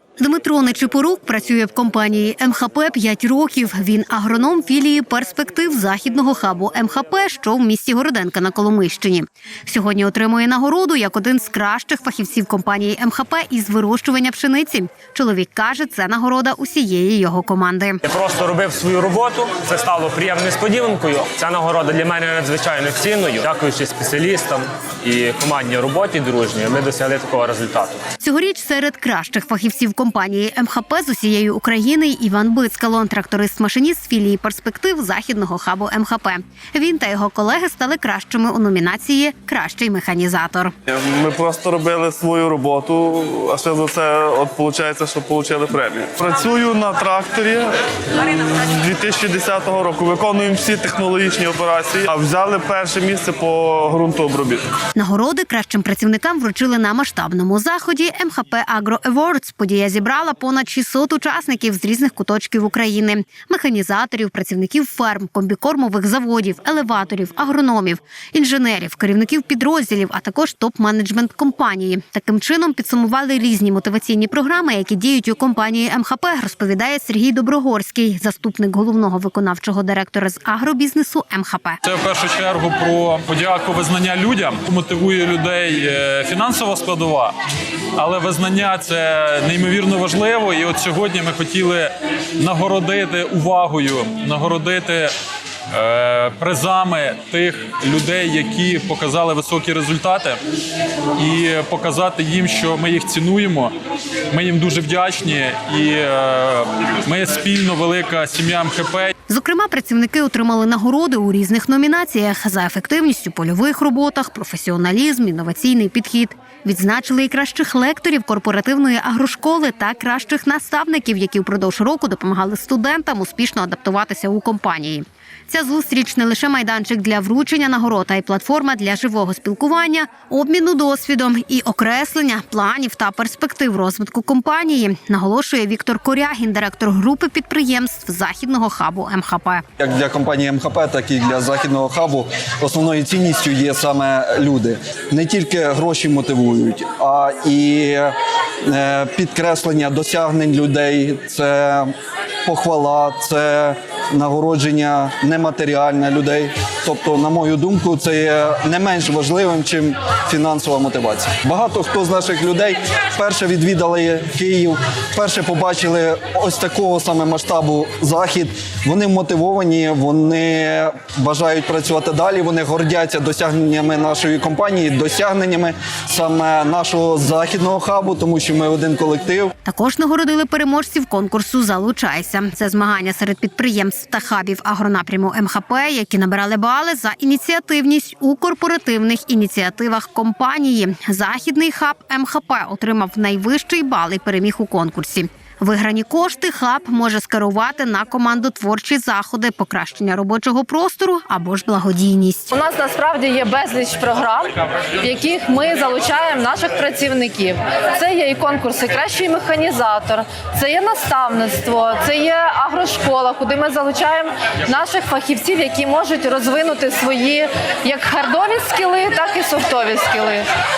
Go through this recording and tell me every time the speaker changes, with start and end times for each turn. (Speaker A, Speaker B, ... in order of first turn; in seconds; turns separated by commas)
Speaker A: 0.2-18.0, Speaker B: 18.1-28.0, Speaker A: 28.2-40.7, Speaker C: 40.9-54.6, Speaker A: 54.9-81.8, Speaker D: 81.8-87.3, Speaker D: 88.0-95.1, Speaker D: 95.7-100.4, Speaker D: 101.2-103.7, Speaker D: 104.3-109.1, Speaker A: 109.3-139.6, Speaker E: 139.8-148.1, Speaker E: 148.7-151.9, Speaker E: 152.4-179.5, Speaker A: 179.6-202.5, Speaker F: 202.5-220.5